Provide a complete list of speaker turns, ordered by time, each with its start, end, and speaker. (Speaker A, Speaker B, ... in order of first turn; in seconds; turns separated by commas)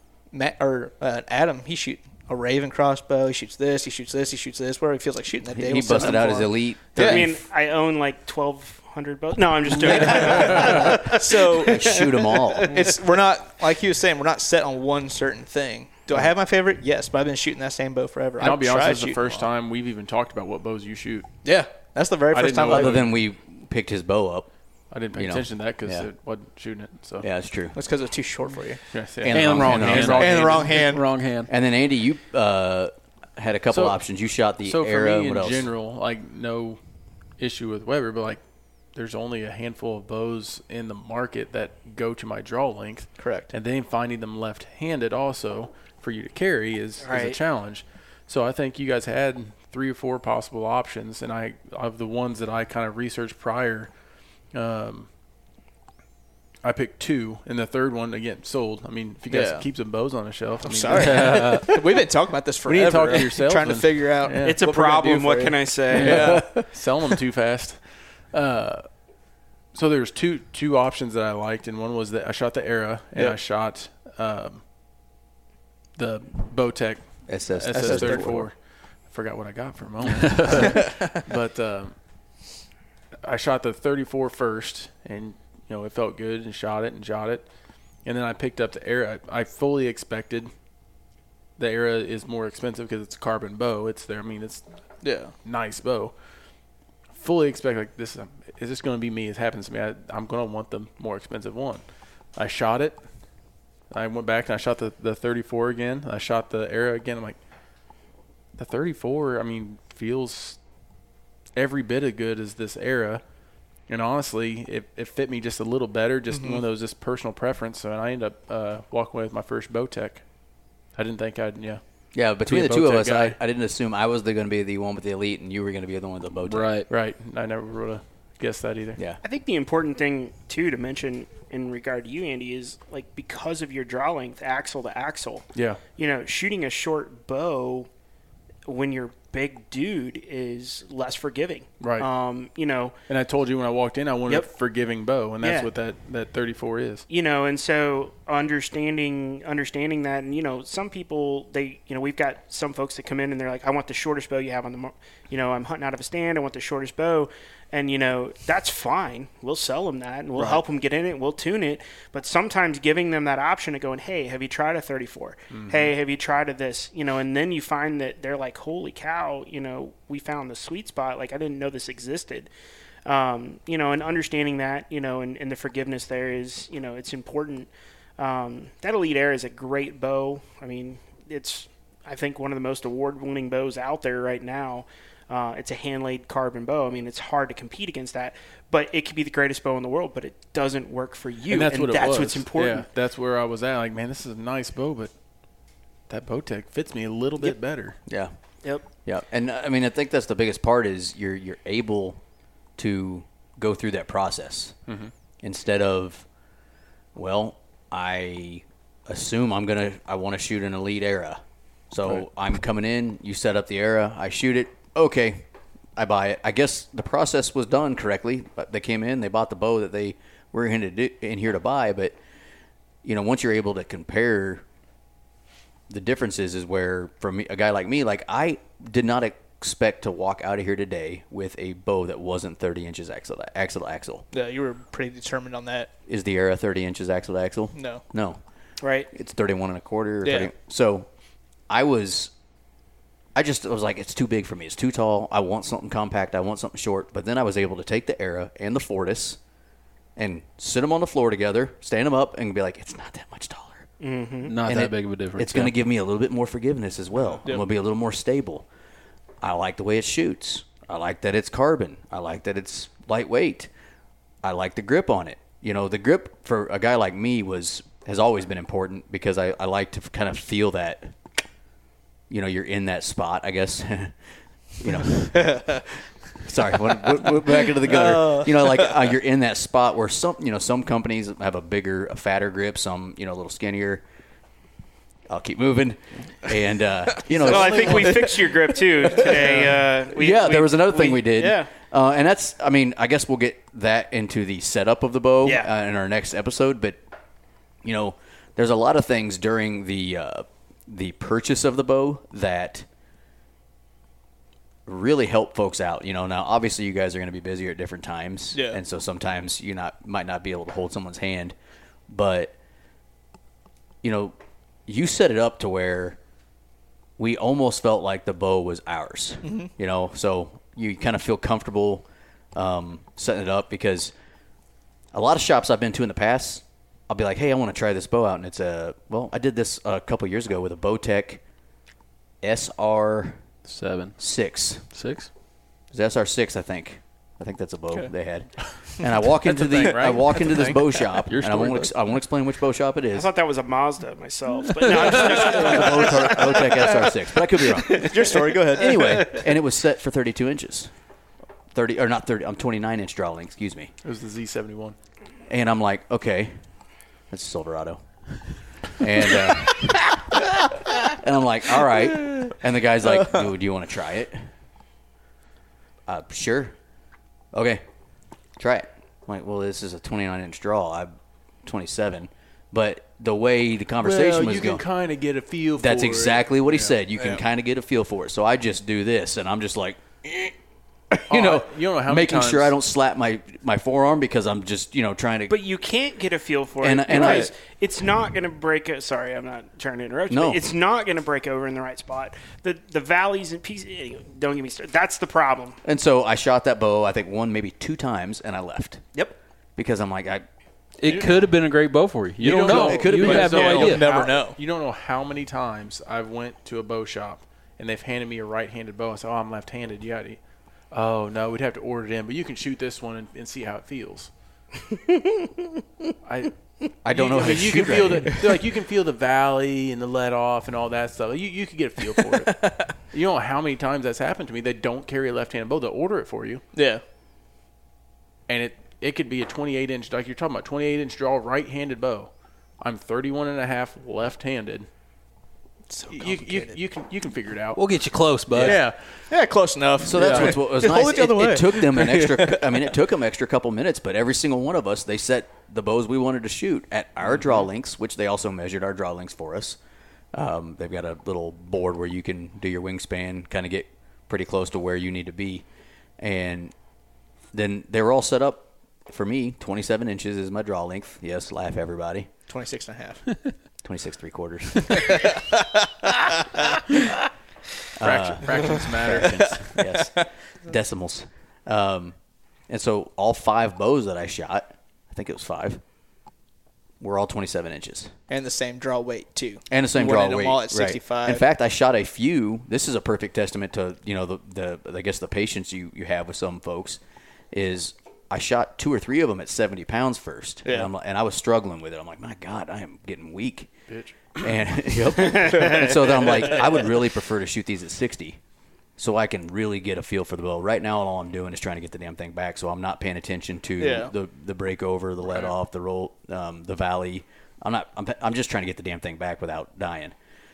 Speaker A: 0.3-7.2, Speaker B: 5.5-7.4, Speaker C: 6.9-11.1, Speaker A: 9.8-19.5, Speaker B: 11.7-12.8, Speaker D: 18.4-21.6, Speaker A: 21.4-23.1, Speaker D: 22.3-23.2, Speaker B: 22.6-26.1, Speaker D: 24.9-27.3, Speaker B: 27.2-27.8, Speaker A: 27.7-29.1, Speaker D: 28.9-30.8, Speaker B: 29.0-35.7, Speaker E: 29.3-31.5, Speaker A: 30.2-31.1, Speaker D: 33.7-55.1, Speaker A: 43.1-43.5, Speaker C: 47.0-47.4, Speaker D: 56.6-62.0, Speaker A: 59.3-66.7, Speaker E: 60.9-61.7, Speaker D: 62.6-64.7, Speaker C: 64.4-66.3, Speaker D: 65.9-69.2, Speaker D: 69.7-74.6, Speaker A: 73.1-73.4, Speaker D: 75.9-82.4, Speaker B: 77.2-78.5, Speaker A: 77.7-78.5, Speaker E: 80.0-80.7, Speaker A: 80.6-81.2, Speaker D: 83.1-90.7, Speaker D: 91.5-110.9, Speaker A: 95.0-95.4, Speaker D: 111.5-123.4, Speaker A: 116.3-116.6, Speaker B: 122.1-126.8, Speaker E: 126.4-126.9, Speaker D: 126.8-129.0, Speaker C: 129.2-137.9, Speaker D: 135.5-135.8, Speaker C: 138.7-142.9, Speaker D: 141.8-142.1, Speaker D: 143.1-147.1, Speaker C: 145.4-145.7, Speaker C: 147.1-172.5, Speaker D: 165.5-165.9, Speaker C: 173.0-192.9, Speaker D: 191.5-198.0, Speaker C: 197.4-198.1, Speaker B: 198.0-202.2, Speaker B: 202.8-204.8, Speaker D: 204.8-205.1, Speaker B: 205.4-206.3, Speaker B: 207.1-222.2, Speaker B: 223.0-224.6, Speaker B: 225.9-234.3, Speaker A: 234.3-235.9, Speaker B: 236.1-238.4, Speaker A: 237.7-238.0, Speaker C: 238.8-239.1, Speaker B: 239.1-241.1, Speaker A: 240.2-240.5, Speaker B: 241.7-242.3, Speaker B: 243.3-249.4, Speaker B: 250.2-253.9, Speaker C: 254.0-254.5, Speaker E: 254.4-255.7, Speaker B: 254.7-258.7, Speaker B: 259.4-263.7, Speaker B: 264.4-271.2, Speaker B: 272.3-284.0, Speaker A: 275.3-275.8, Speaker A: 277.8-278.9, Speaker B: 285.3-288.3, Speaker A: 287.2-289.7, Speaker C: 287.4-291.7, Speaker B: 289.4-297.0, Speaker C: 295.4-295.7, Speaker B: 297.8-302.9, Speaker B: 304.9-311.5, Speaker A: 308.5-308.8, Speaker B: 312.1-312.5, Speaker B: 314.0-316.2, Speaker B: 317.2-324.1, Speaker A: 319.4-319.7, Speaker B: 325.1-331.4, Speaker B: 332.4-333.5, Speaker E: 333.6-335.3, Speaker B: 334.2-334.9, Speaker B: 335.9-343.3, Speaker D: 338.5-341.1, Speaker E: 341.2-341.9, Speaker C: 343.1-347.0, Speaker B: 344.9-350.9, Speaker A: 346.6-347.0, Speaker A: 347.8-349.4, Speaker B: 351.7-353.9, Speaker D: 354.0-354.9, Speaker B: 355.5-356.7, Speaker B: 357.3-360.3, Speaker B: 361.1-364.5, Speaker B: 366.1-366.8, Speaker B: 367.5-367.8, Speaker B: 368.6-374.9, Speaker D: 374.0-377.4, Speaker B: 375.8-380.5, Speaker B: 381.1-385.5, Speaker D: 381.3-382.7, Speaker C: 385.5-395.8, Speaker B: 386.8-387.5, Speaker B: 390.3-390.6, Speaker B: 395.8-399.1, Speaker B: 399.8-400.4, Speaker E: 401.0-404.1, Speaker D: 401.0-401.4, Speaker D: 402.4-414.3, Speaker B: 402.4-404.0, Speaker A: 402.7-404.6, Speaker D: 416.2-426.6, Speaker B: 417.0-418.5, Speaker A: 422.4-423.0, Speaker A: 426.7-427.0, Speaker D: 428.5-434.9, Speaker A: 435.9-436.8, Speaker D: 436.1-439.3, Speaker E: 437.7-438.9, Speaker B: 438.5-438.8, Speaker A: 439.3-442.7, Speaker B: 440.1-449.8, Speaker E: 440.2-440.5, Speaker D: 440.2-440.5, Speaker D: 447.3-447.6, Speaker B: 450.3-455.6, Speaker B: 456.2-456.7, Speaker B: 457.5-462.3, Speaker A: 462.5-463.6, Speaker B: 463.8-465.2, Speaker A: 464.9-466.2, Speaker B: 468.0-475.8, Speaker D: 468.0-469.8, Speaker A: 468.8-470.3, Speaker B: 477.0-478.1, Speaker A: 478.3-481.4, Speaker B: 479.7-493.7, Speaker A: 490.6-490.9, Speaker D: 493.9-494.3, Speaker B: 494.4-498.4, Speaker A: 495.5-495.8, Speaker B: 499.0-510.1, Speaker A: 503.8-504.1